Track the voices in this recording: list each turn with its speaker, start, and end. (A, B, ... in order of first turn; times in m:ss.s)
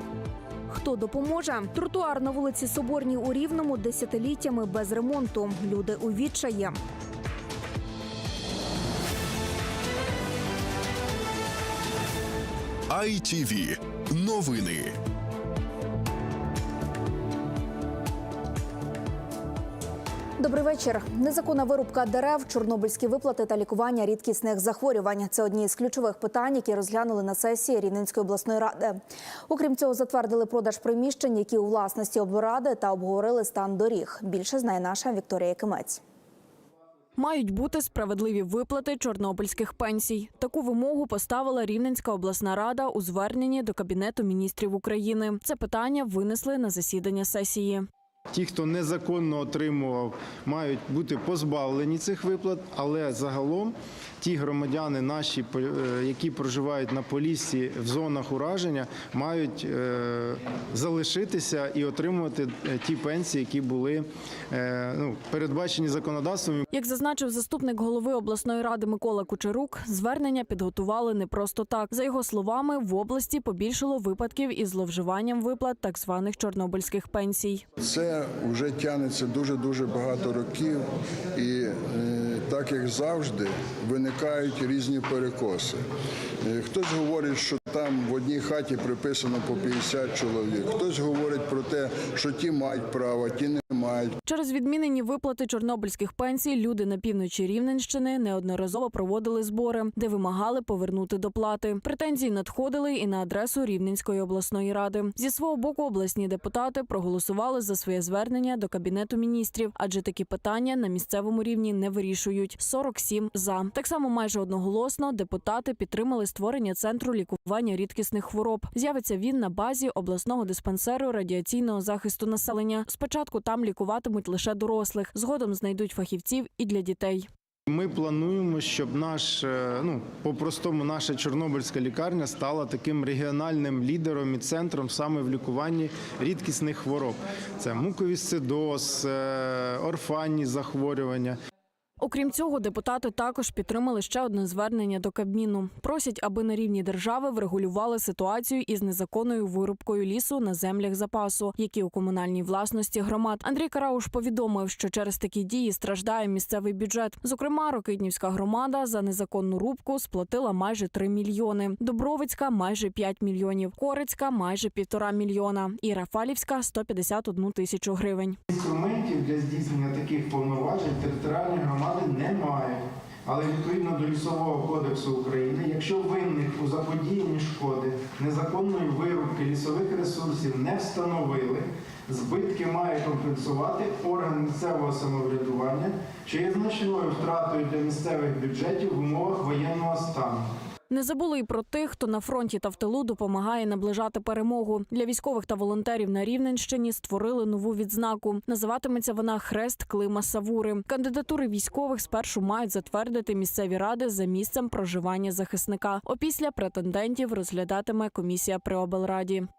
0:00.7-0:06.8 A
0:12.9-0:14.9 B
0:20.4-0:36.0 A
0:37.2-0:47.9 C
0:48.3-1:06.7 D
1:06.7-1:17.6 C
1:17.8-1:25.8 E
1:26.4-1:34.2 E
1:34.2-2:07.3 C
2:07.7-2:21.4 D
2:22.0-2:48.4 C
2:48.5-3:10.5 D
3:10.9-3:29.5 C